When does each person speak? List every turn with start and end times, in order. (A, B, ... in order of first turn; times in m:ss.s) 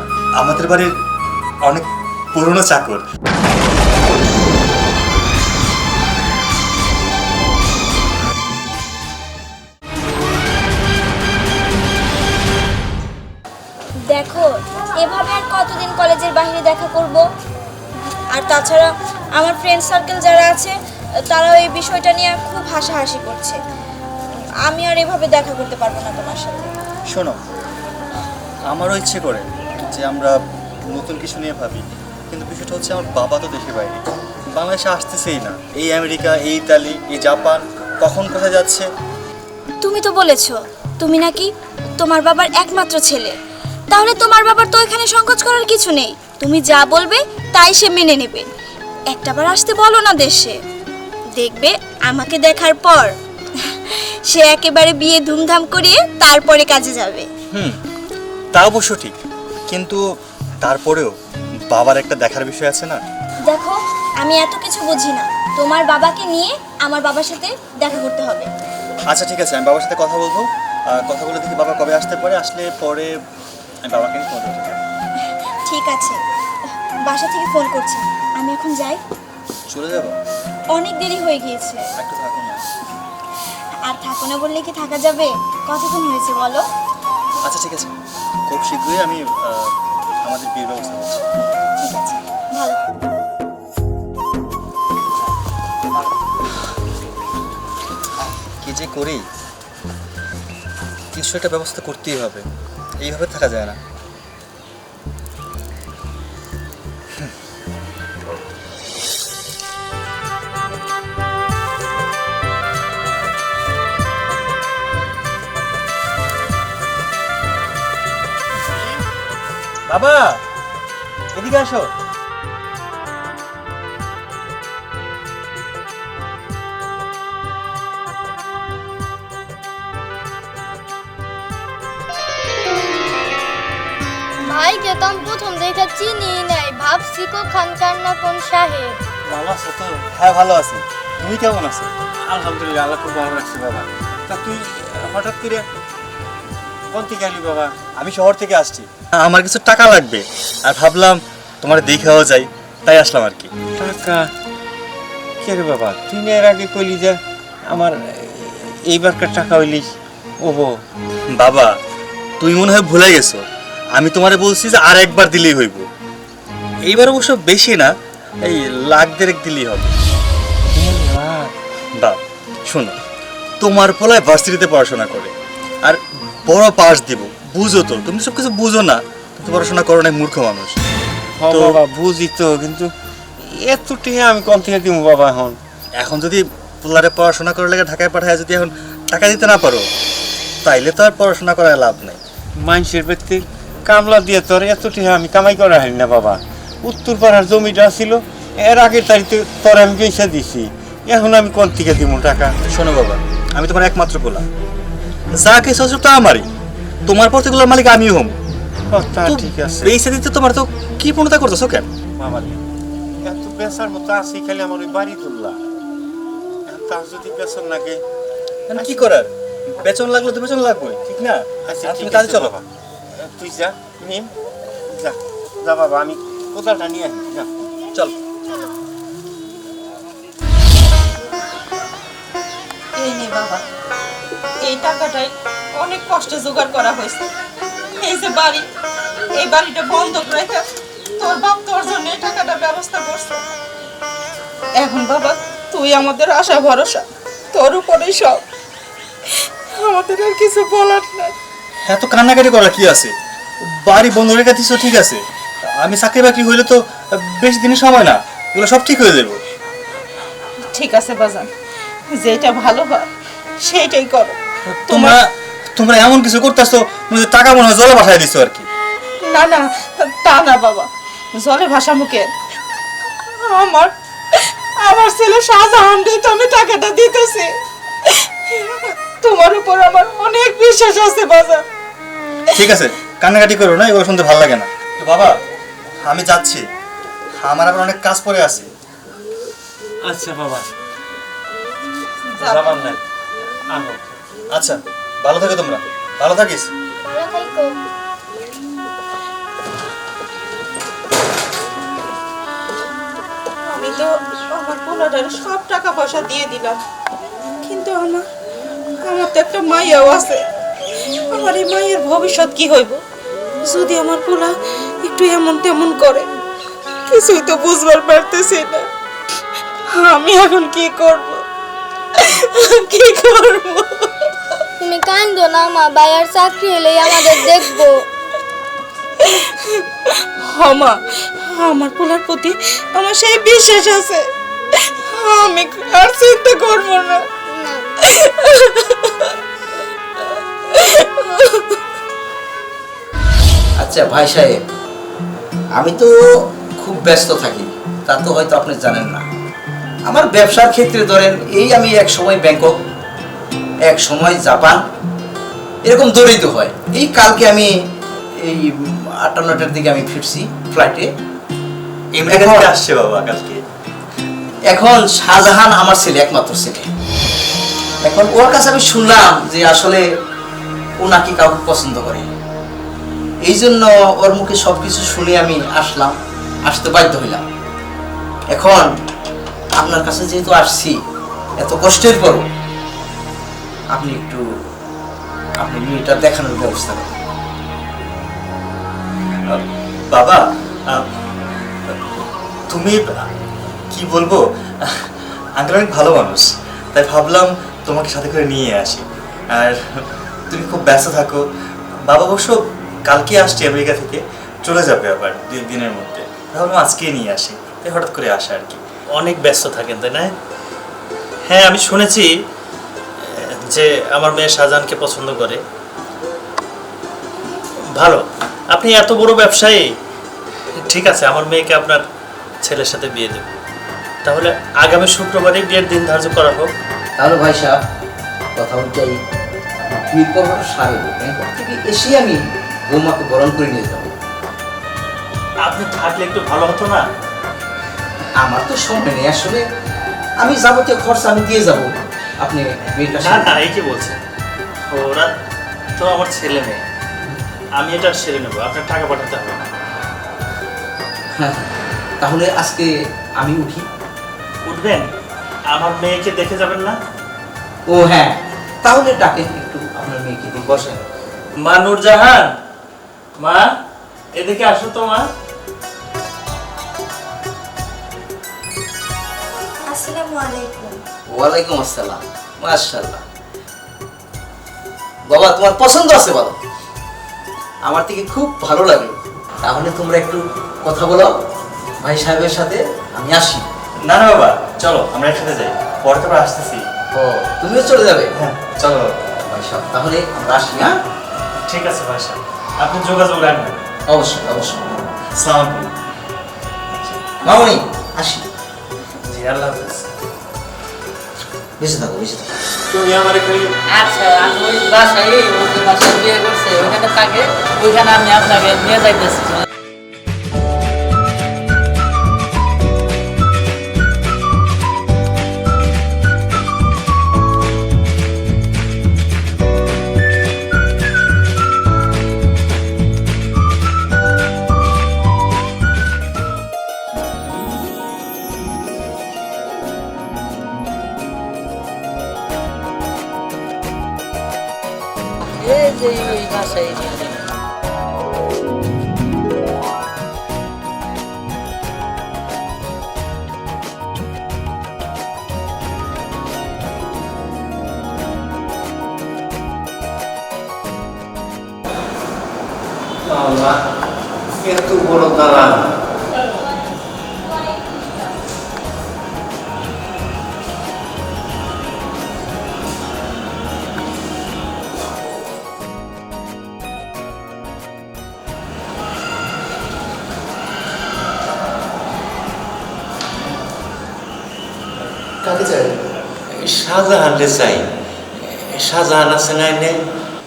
0:00.4-0:00.9 A
0:01.6-0:03.0 A
0:14.1-0:17.2 B
0:18.3-0:20.7 B
0:21.3-0:23.6 B
0:24.6-0:26.7 B
0:27.1-0:27.4 A
0:28.7-0:30.4 A
0:30.9-0:38.9 A
0:39.8-0:43.3 B
0:43.9-0:48.4 B
0:49.1-0:50.6 B
0:51.4-0:53.1 B
0:53.7-0:57.3 B
0:57.5-0:57.8 A
0:58.5-0:59.1 A
0:59.7-1:00.0 A
1:00.6-1:01.1 A
1:01.7-1:03.0 A
1:03.5-1:08.5 B
1:09.1-1:13.1 A
1:13.8-1:14.8 A
1:15.6-1:16.2 B
1:17.1-1:19.0 B
1:19.7-1:20.2 A
1:20.7-1:21.8 B
1:22.0-1:22.6 A
1:23.8-1:26.6 B
1:27.4-1:27.9 A
1:28.5-1:29.7 A
1:30.2-1:31.2 A
1:31.8-1:32.8 B
1:38.2-1:39.3 A
1:41.1-1:42.4 A
1:43.0-1:43.8 A
1:59.9-2:00.3 A
2:01.3-2:01.9 A
2:14.4-2:19.0 C
2:19.4-2:19.9 D
2:20.1-2:21.9 A
2:22.3-2:25.6 D
2:26.9-2:27.7 D
2:28.0-2:33.5 A
2:33.8-2:34.2 D
2:35.4-2:37.2 D
2:38.5-2:39.8 D
2:41.4-2:41.7 A
2:42.4-2:43.4 A
2:44.0-2:45.8 A
2:46.8-2:47.9 A
2:48.4-2:49.9 A
2:50.8-2:51.5 E
2:52.0-2:53.0 A
2:53.6-3:00.8 A
3:01.4-3:02.9 D
3:01.5-3:01.8 A
3:03.6-3:05.6 D
3:06.0-3:09.8 A
3:10.6-3:12.2 A
3:12.6-3:22.5 D
3:22.7-3:24.4 A
3:25.4-3:26.5 A
3:27.0-3:28.4 A
3:28.9-3:29.8 D
3:29.2-3:31.9 A
3:32.2-3:32.5 D
3:33.2-3:35.6 D
3:36.7-3:38.0 D
3:38.7-3:42.6 A
3:41.7-3:42.6 D
3:43.2-3:44.3 D
3:44.9-3:47.5 D
3:53.0-3:53.6 F
3:54.6-3:57.3 F
3:58.0-3:58.7 F
3:59.3-4:00.6 F
4:01.2-4:03.4 F
4:04.8-4:08.4 F
4:09.3-4:11.3 F
4:11.8-4:13.1 A
4:13.6-4:15.2 A
4:15.8-4:19.4 A
4:20.7-4:21.5 F
4:22.1-4:23.1 F
4:23.6-4:24.4 F
4:24.7-4:28.7 A
4:24.9-4:25.2 F
4:29.2-4:32.3 F
4:33.4-4:37.5 F
4:38.0-4:41.6 F
4:42.5-4:45.3 A
4:46.0-4:46.6 A
4:47.4-4:48.7 A
4:50.0-4:50.7 E
4:52.3-4:52.9 F
4:52.4-4:53.0 E
4:53.7-4:54.1 E
4:54.5-4:56.7 A
4:57.0-4:57.8 C
5:03.7-5:06.8 F
5:07.6-5:08.2 F
5:09.0-5:10.4 F
5:11.3-5:13.0 F
5:13.6-5:16.3 F
5:17.1-5:18.8 F
5:19.9-5:21.4 F
5:22.1-5:24.3 F
5:24.8-5:28.0 C
5:27.0-5:27.8 F
5:29.2-5:37.4 F
5:37.5-5:37.8 C
5:37.9-5:39.4 F
5:40.7-5:41.8 F
5:43.8-5:44.6 E
5:45.8-5:46.2 E
5:46.8-5:49.2 E
5:50.1-5:52.7 E
5:53.9-5:54.8 E
5:55.8-5:57.7 E
5:58.4-6:01.1 E
6:02.2-6:03.6 A
6:02.2-6:02.7 E
6:04.7-6:06.9 E
6:08.0-6:10.0 E
6:11.0-6:12.3 E
6:13.4-6:16.1 E
6:16.7-6:17.4 E
6:18.5-6:18.9 E
6:19.7-6:21.0 E
6:21.6-6:22.4 E
6:23.9-6:24.4 E
6:25.6-6:27.1 E
6:30.1-6:31.0 A
6:32.7-6:33.0 A
6:33.9-6:41.4 A
6:42.1-6:48.8 A
6:49.2-6:50.3 G
6:51.5-6:52.3 G
6:53.2-6:55.6 G
6:58.0-6:59.8 G
7:00.8-7:02.0 G
7:02.6-7:03.4 G
7:04.2-7:06.7 G
7:07.2-7:07.8 E
7:08.6-7:09.1 E
7:10.0-7:14.1 E
7:15.6-7:17.0 G
7:18.4-7:19.6 E
7:20.4-7:21.9 E
7:22.4-7:23.3 E
7:23.0-7:24.2 G
7:24.9-7:25.3 G
7:26.0-7:26.8 G
7:27.8-7:29.6 G
7:31.4-7:31.7 E
7:32.2-7:33.8 E
7:34.6-7:35.1 G
7:35.7-7:36.9 G
7:37.9-7:41.0 E
7:41.6-7:42.5 G
7:43.4-7:43.7 G
7:44.4-7:45.2 G
7:49.8-7:51.0 B
7:51.3-7:53.2 E
7:55.3-7:56.5 E
7:57.8-8:01.3 E
8:02.0-8:03.6 E
8:04.0-8:06.8 A
8:07.1-8:08.3 E
8:08.3-8:09.1 A
8:09.5-8:11.0 E
8:11.6-8:13.8 G
8:14.1-8:15.0 E
8:15.4-8:15.9 A
8:17.4-8:18.5 E
8:19.2-8:20.1 G
8:21.8-8:23.0 E
8:23.0-8:23.7 D
8:23.9-8:29.6 H
8:55.6-8:57.3 H
9:13.3-9:13.7 D
9:14.6-9:15.7 D
9:36.7-9:37.8 E
9:38.4-9:40.0 E